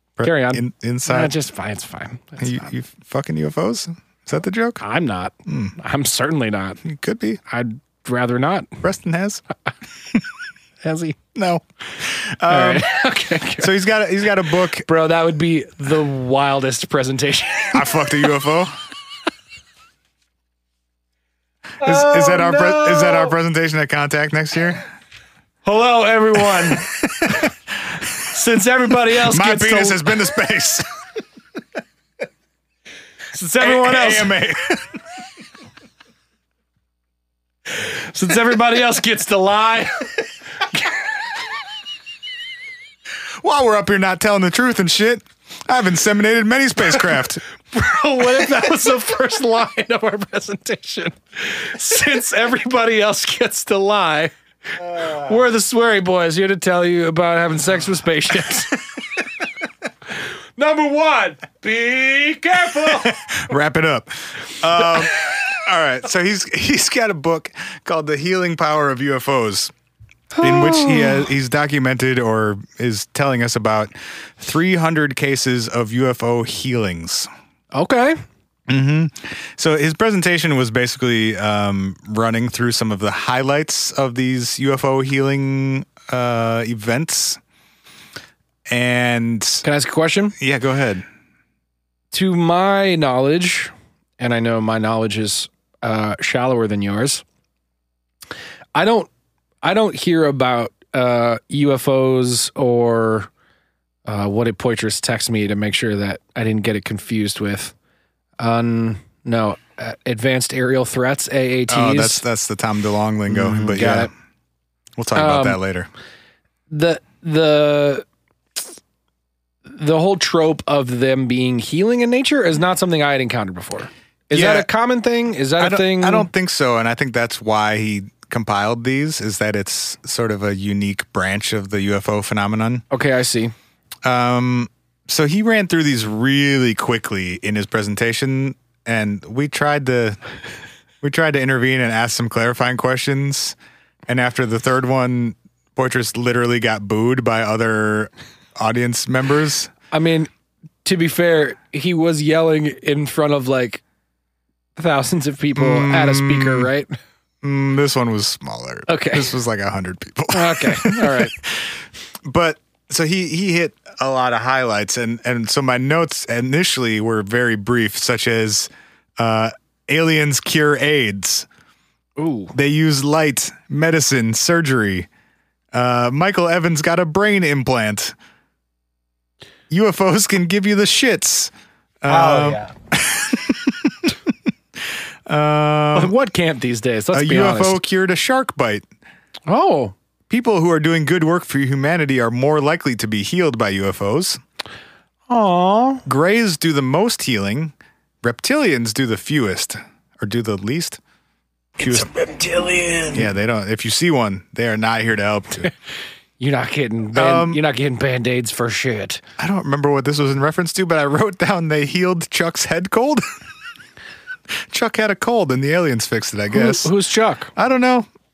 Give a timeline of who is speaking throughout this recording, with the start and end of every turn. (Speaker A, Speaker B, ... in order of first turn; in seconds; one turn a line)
Speaker A: 0.2-1.3
Speaker B: 0.2-2.7
Speaker A: 2.4-4.8
Speaker B: 4.8-6.8
Speaker A: 5.5-5.8
Speaker A: 6.8-7.4
Speaker B: 7.5-8.7
Speaker A: 8.8-9.4
Speaker B: 10.8-11.2
Speaker A: 11.3-12.9
Speaker B: 12.5-13.8
Speaker A: 13.6-14.9
Speaker B: 14.9-17.9
Speaker A: 17.7-18.7
Speaker B: 21.8-23.3
Speaker A: 21.8-24.8
Speaker B: 25.6-26.9
Speaker B: 28.3-30.0
Speaker A: 29.1-30.9
Speaker B: 33.3-34.3
Speaker A: 33.6-35.0
Speaker B: 38.1-40.1
Speaker A: 43.4-47.4
Speaker B: 47.7-54.3
Speaker B: 55.0-58.8
Speaker B: 60.6-63.1
Speaker A: 63.0-69.7
Speaker B: 70.3-71.3
Speaker A: 70.4-77.3
Speaker B: 77.7-78.2
Speaker A: 78.7-87.4
Speaker A: 88.7-89.6
Speaker B: 89.6-90.3
Speaker A: 90.4-91.0
Speaker B: 92.1-97.2
Speaker B: 98.8-99.1
Speaker B: 99.6-103.3
Speaker B: 104.1-107.7
Speaker B: 108.4-112.2
Speaker A: 111.7-114.1
Speaker B: 113.3-114.1
Speaker A: 115.0-115.9
Speaker B: 115.2-115.6
Speaker B: 116.7-118.0
Speaker B: 119.7-126.3
Speaker A: 124.3-124.7
Speaker A: 125.6-132.8
Speaker B: 132.9-133.5
Speaker A: 134.0-140.2
Speaker A: 141.0-143.6
Speaker A: 144.1-149.7
Speaker B: 149.9-150.3
Speaker B: 150.8-153.8
Speaker B: 154.8-157.0
Speaker A: 155.6-156.7
Speaker A: 157.4-171.5
Speaker B: 158.9-159.3
Speaker B: 160.3-161.3
Speaker B: 172.2-172.5
Speaker A: 172.5-175.1
Speaker A: 175.7-178.2
Speaker A: 179.7-184.1
Speaker C: 182.1-182.7
Speaker A: 185.3-186.2
Speaker B: 185.9-187.8
Speaker A: 187.1-188.8
Speaker B: 189.5-189.9
Speaker A: 190.3-194.4
Speaker B: 195.3-196.0
Speaker A: 196.1-201.0
Speaker C: 201.8-203.3
Speaker A: 201.8-202.1
Speaker A: 203.1-205.7
Speaker B: 206.4-209.2
Speaker A: 207.1-207.6
Speaker A: 209.4-213.2
Speaker A: 214.7-216.9
Speaker B: 216.5-217.5
Speaker A: 217.6-218.1